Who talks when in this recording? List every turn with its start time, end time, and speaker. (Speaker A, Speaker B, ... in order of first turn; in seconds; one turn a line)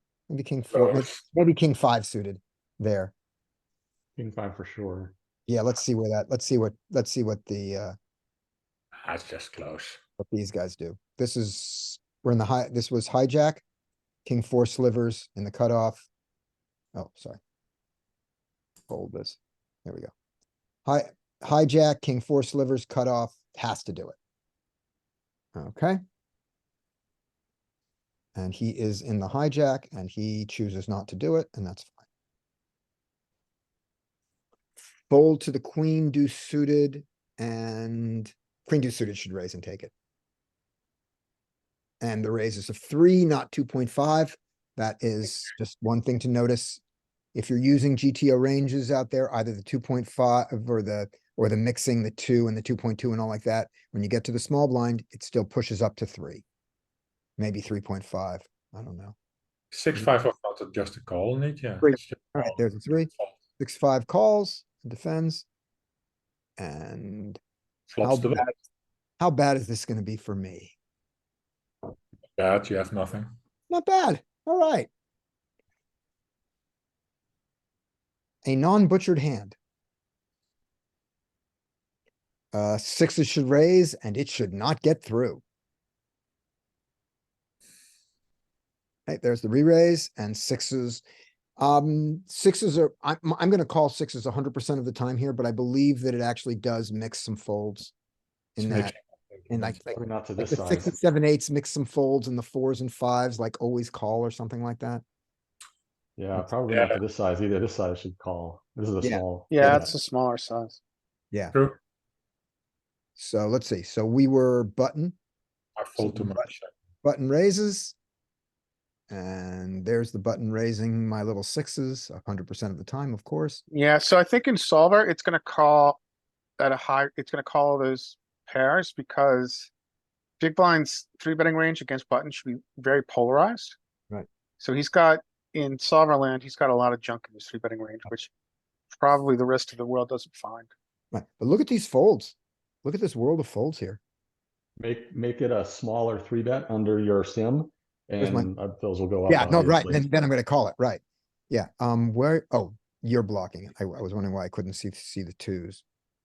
Speaker A: 0.3-3.1
Speaker B: 0.7-1.2
Speaker C: 4.2-5.1
Speaker A: 5.5-7.9
Speaker B: 9.0-10.0
Speaker A: 10.2-13.6
Speaker A: 14.3-16.1
Speaker A: 16.9-17.4
Speaker A: 18.9-20.1
Speaker A: 20.9-24.2
Speaker A: 25.6-26.0
Speaker A: 28.4-32.0
Speaker A: 35.1-39.9
Speaker A: 42.0-46.8
Speaker A: 47.3-56.4
Speaker A: 57.4-59.1
Speaker B: 59.7-62.6
Speaker A: 61.8-65.5
Speaker A: 66.6-67.4
Speaker B: 67.9-68.5
Speaker A: 68.0-68.5
Speaker A: 69.2-70.7
Speaker B: 72.4-73.3
Speaker A: 73.7-74.9
Speaker A: 78.5-79.6
Speaker A: 82.5-85.4
Speaker A: 89.1-91.0
Speaker A: 91.6-97.9
Speaker A: 98.6-98.9
Speaker B: 98.6-99.8
Speaker A: 99.5-105.0
Speaker C: 99.9-100.9
Speaker C: 106.2-109.9
Speaker B: 106.7-107.0
Speaker A: 109.0-109.9
Speaker D: 109.5-110.8
Speaker B: 111.5-111.8
Speaker A: 113.2-115.2
Speaker B: 115.8-116.7
Speaker A: 116.0-116.5
Speaker A: 117.0-118.0
Speaker A: 119.1-123.6
Speaker D: 123.7-126.0
Speaker D: 126.6-129.7
Speaker D: 130.4-133.8
Speaker D: 134.6-138.3
Speaker D: 138.9-140.7
Speaker A: 141.1-144.0
Speaker C: 144.8-150.1
Speaker A: 148.2-148.5
Speaker A: 149.3-155.8